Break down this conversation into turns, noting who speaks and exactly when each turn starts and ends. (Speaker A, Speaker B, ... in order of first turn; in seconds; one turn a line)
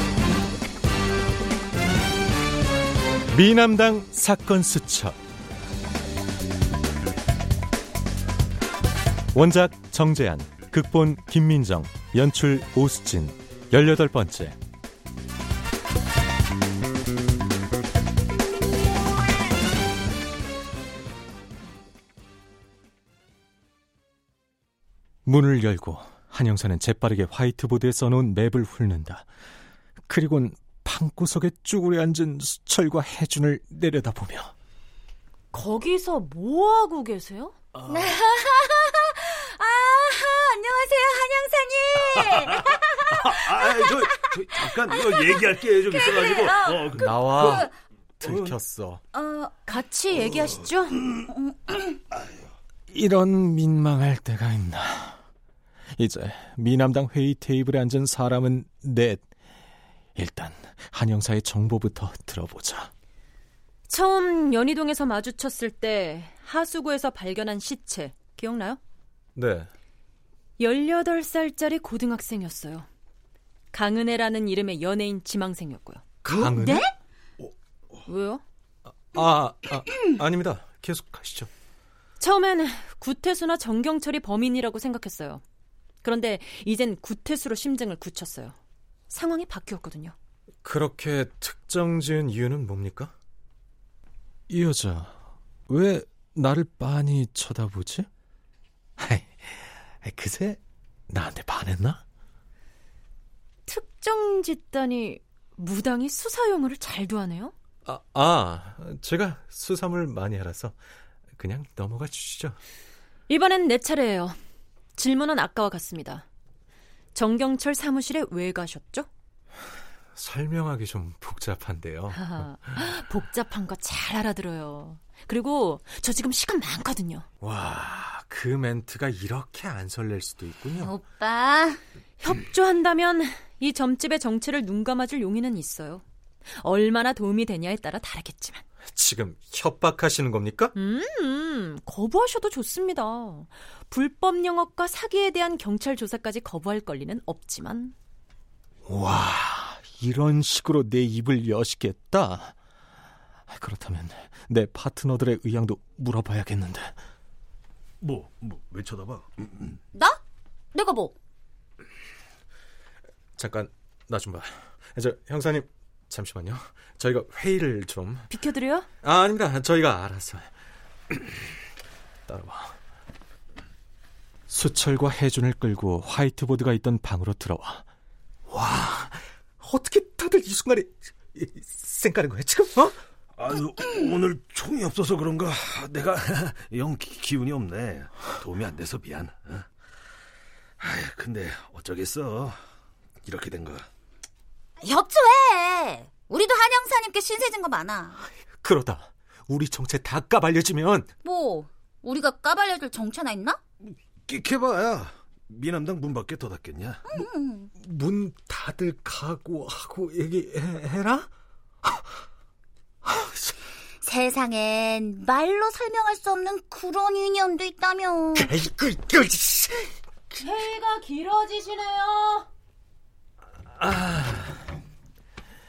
Speaker A: 3.3-5.2
Speaker A: 9.3-14.6
Speaker A: 25.3-29.3
Speaker A: 30.1-34.5
Speaker B: 35.5-37.6
Speaker C: 37.9-43.2
Speaker D: 43.1-47.6
Speaker C: 43.9-44.3
Speaker C: 46.1-46.8
Speaker A: 46.9-47.7
Speaker A: 48.2-49.0
Speaker D: 48.2-48.5
Speaker C: 49.1-49.5
Speaker B: 49.7-51.0
Speaker C: 51.3-51.9
Speaker A: 52.9-55.2
Speaker A: 56.0-59.3
Speaker A: 60.2-62.9
Speaker B: 63.9-68.8
Speaker A: 69.3-69.7
Speaker B: 70.6-72.9
Speaker B: 73.7-76.9
Speaker A: 76.2-76.9
Speaker B: 78.1-78.4
Speaker A: 78.9-81.5
Speaker B: 82.2-85.4
Speaker B: 86.0-88.6
Speaker B: 89.1-90.2
Speaker A: 90.6-93.1
Speaker A: 94.5-98.1
Speaker A: 99.0-102.0
Speaker B: 103.7-107.5
Speaker A: 107.8-110.8
Speaker A: 111.4-112.6
Speaker B: 113.3-114.4
Speaker B: 115.0-116.2
Speaker B: 117.2-119.1
Speaker A: 120.2-122.5
Speaker B: 122.2-127.3
Speaker A: 127.4-131.0
Speaker C: 130.8-131.8
Speaker B: 132.2-136.0
Speaker B: 136.6-138.6
Speaker A: 138.9-140.7
Speaker B: 140.8-147.9
Speaker A: 148.8-152.6
Speaker A: 153.5-157.0
Speaker D: 158.0-159.8
Speaker C: 159.9-160.2
Speaker C: 160.7-161.1
Speaker A: 163.4-168.3
Speaker B: 168.3-168.9
Speaker A: 169.0-170.5
Speaker A: 171.1-171.4
Speaker A: 172.3-172.8
Speaker A: 174.5-177.9
Speaker A: 178.5-183.0
Speaker D: 183.3-189.7
Speaker D: 190.8-192.6
Speaker D: 193.2-193.9
Speaker C: 194.8-198.2
Speaker A: 198.5-201.1
Speaker C: 201.2-203.6
Speaker D: 204.3-207.0
Speaker C: 207.1-207.7
Speaker A: 207.8-211.3
Speaker A: 213.1-213.5
Speaker C: 214.0-218.5
Speaker A: 218.4-219.9
Speaker B: 220.4-222.5
Speaker A: 223.7-224.7